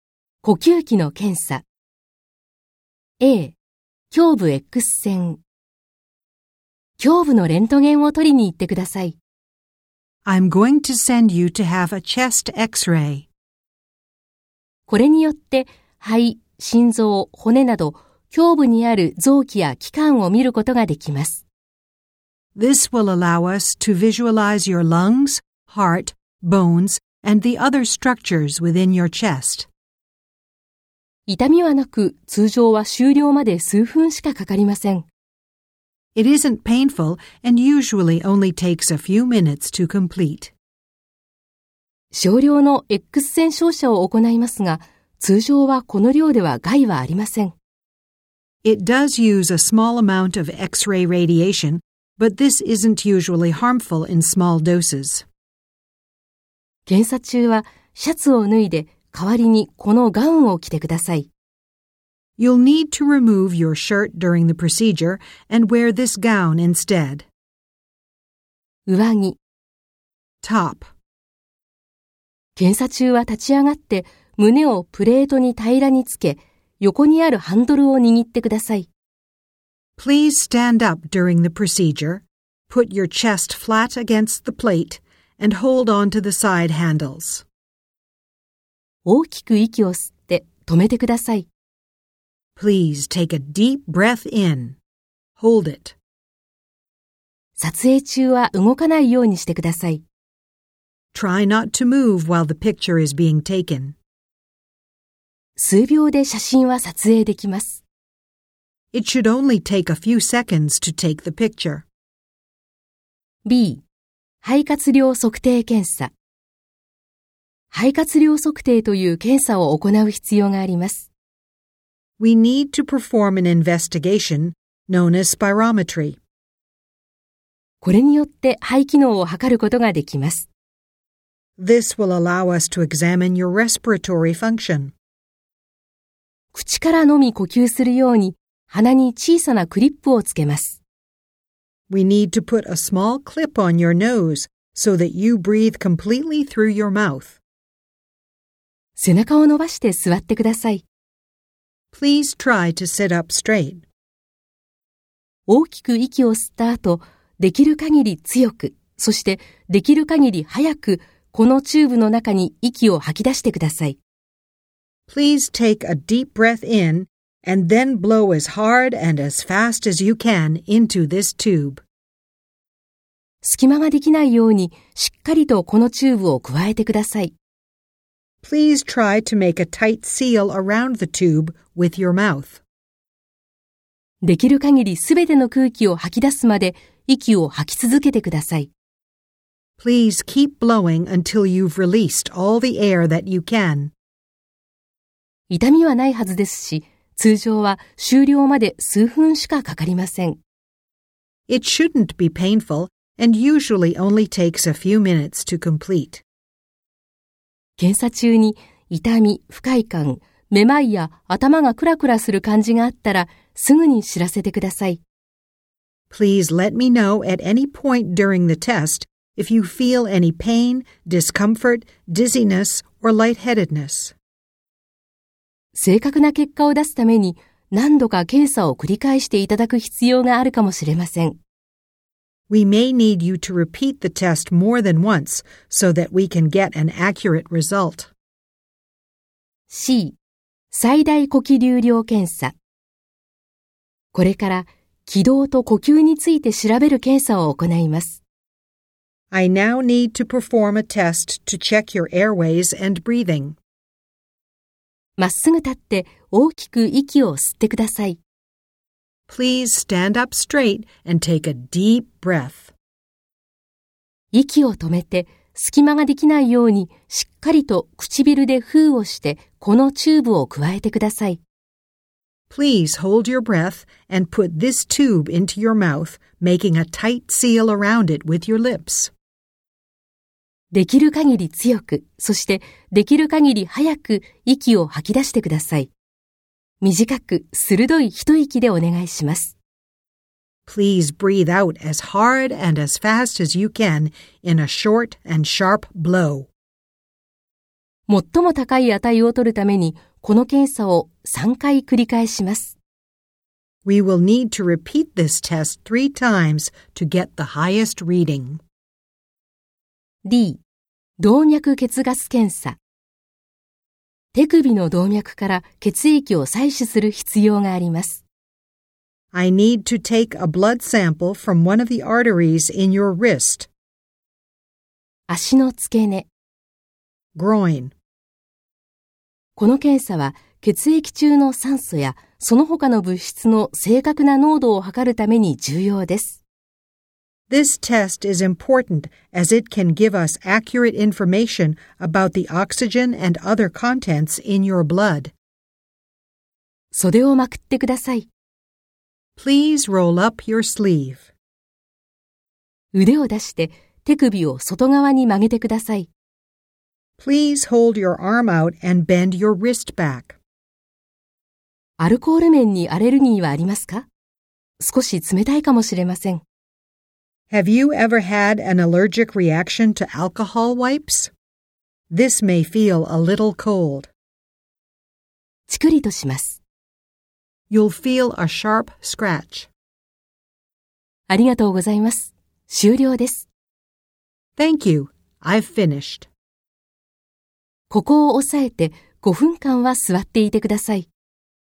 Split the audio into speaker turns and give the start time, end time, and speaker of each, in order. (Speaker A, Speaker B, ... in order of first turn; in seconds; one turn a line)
Speaker A: 0.4-1.6
Speaker A: 3.2-3.5
Speaker A: 4.1-5.4
Speaker A: 7.0-9.2
Speaker B: 10.2-13.3
Speaker A: 14.9-21.4
Speaker B: 22.5-29.7
Speaker A: 31.3-35.0
Speaker B: 36.1-40.5
Speaker A: 42.1-47.5
Speaker B: 48.6-55.2
Speaker A: 56.9-61.3
Speaker B: 62.4-67.3
Speaker A: 68.8-69.4
Speaker B: 70.4-70.9
Speaker A: 72.5-78.9
Speaker B: 80.0-87.4
Speaker A: 89.0-91.5
Speaker B: 92.5-94.8
Speaker B: 95.4-96.0
Speaker A: 97.6-100.0
Speaker B: 101.1-104.0
Speaker A: 105.6-107.8
Speaker B: 108.9-111.8
Speaker A: 113.4-113.8
Speaker A: 114.4-116.1
Speaker A: 117.7-121.1
Speaker B: 122.2-126.2
Speaker A: 127.8-130.5
Speaker B: 131.6-134.9
Speaker A: 136.5-140.8
Speaker B: 141.9-147.4
Speaker A: 148.9-150.8
Speaker B: 151.9-153.8
Speaker A: 155.5-164.0
Speaker B: 165.1-171.8
Speaker A: 173.4-177.3
Speaker B: 178.4-182.6
Speaker A: 184.2-188.7
Speaker B: 189.8-193.9
Speaker A: 195.5-200.4
Speaker B: 201.5-206.2
Speaker A: 207.8-215.0
Speaker B: 216.1-224.1
Speaker A: 225.7-231.4
Speaker B: 232.5-238.1
Speaker A: 239.7-240.2
Speaker A: 240.7-242.5
Speaker A: 244.1-248.2
Speaker B: 249.3-253.6
Speaker A: 255.2-258.2
Speaker B: 259.3-262.7
Speaker A: 264.3-271.4
Speaker B: 272.5-279.1
Speaker A: 280.7-285.9
Speaker A: 286.8-289.5
Speaker B: 290.7-296.5
Speaker A: 298.1-302.8
Speaker B: 303.8-308.6
Speaker A: 310.2-310.6
Speaker A: 311.2-312.8
Speaker A: 314.3-318.2
Speaker B: 319.3-323.7
Speaker A: 325.3-326.3
Speaker B: 327.3-327.9
Speaker A: 329.6-336.4
Speaker B: 337.5-345.3
Speaker A: 346.9-348.3
Speaker B: 349.4-351.3
Speaker A: 352.9-356.1
Speaker B: 357.2-360.4
Speaker A: 362.0-364.1
Speaker A: 364.8-366.4
Speaker B: 367.5-371.3
Speaker B: 372.1-374.1
Speaker A: 375.7-376.6
Speaker B: 377.7-379.7
Speaker A: 381.3-383.5
Speaker B: 384.6-386.3
Speaker A: 387.9-391.1